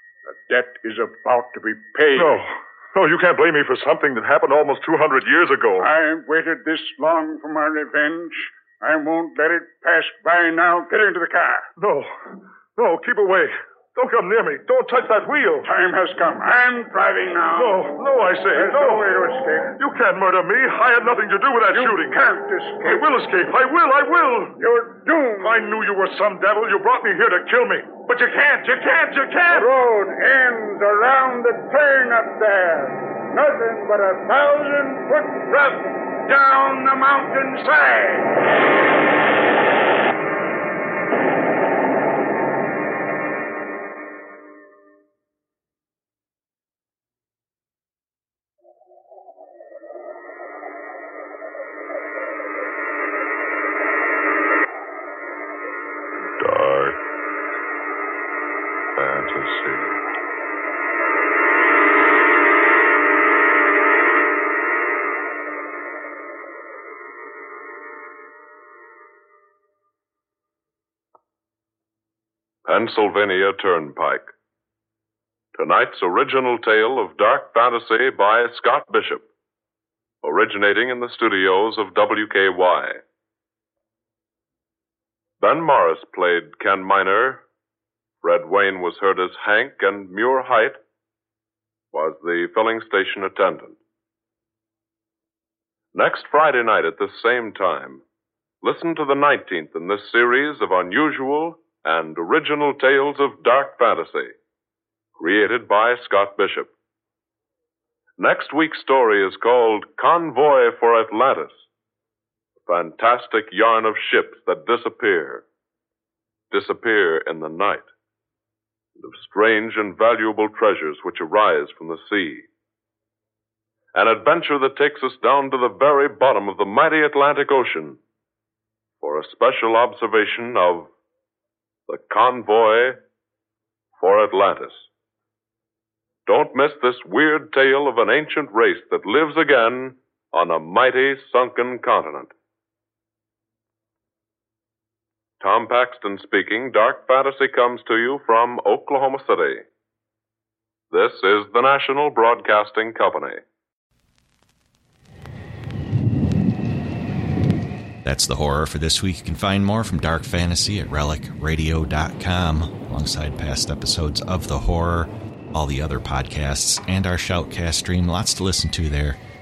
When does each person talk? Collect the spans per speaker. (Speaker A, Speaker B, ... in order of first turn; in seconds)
Speaker A: 0.3-2.4, 5.8-11.7, 15.6-17.9, 18.5-19.8, 21.7-23.1, 24.6-25.6, 29.5-38.4
Speaker B: 2.1-5.9, 11.8-15.7, 17.6-19.1, 19.8-22.2, 22.8-24.6, 25.4-29.7, 56.4-57.0, 59.0-60.0
Speaker C: 72.7-74.3, 75.5-79.3, 80.2-83.0, 85.4-87.4, 88.2-90.8, 91.9-93.8, 95.9-98.0, 98.6-104.4, 105.2-106.7, 108.2-111.7, 112.6-115.5, 116.5-117.9, 119.0-122.5, 123.9-128.0, 129.0-130.9, 131.9-133.0, 134.0-134.9, 136.3-142.3, 145.4-149.7, 150.9-153.4
Speaker D: 158.0-169.2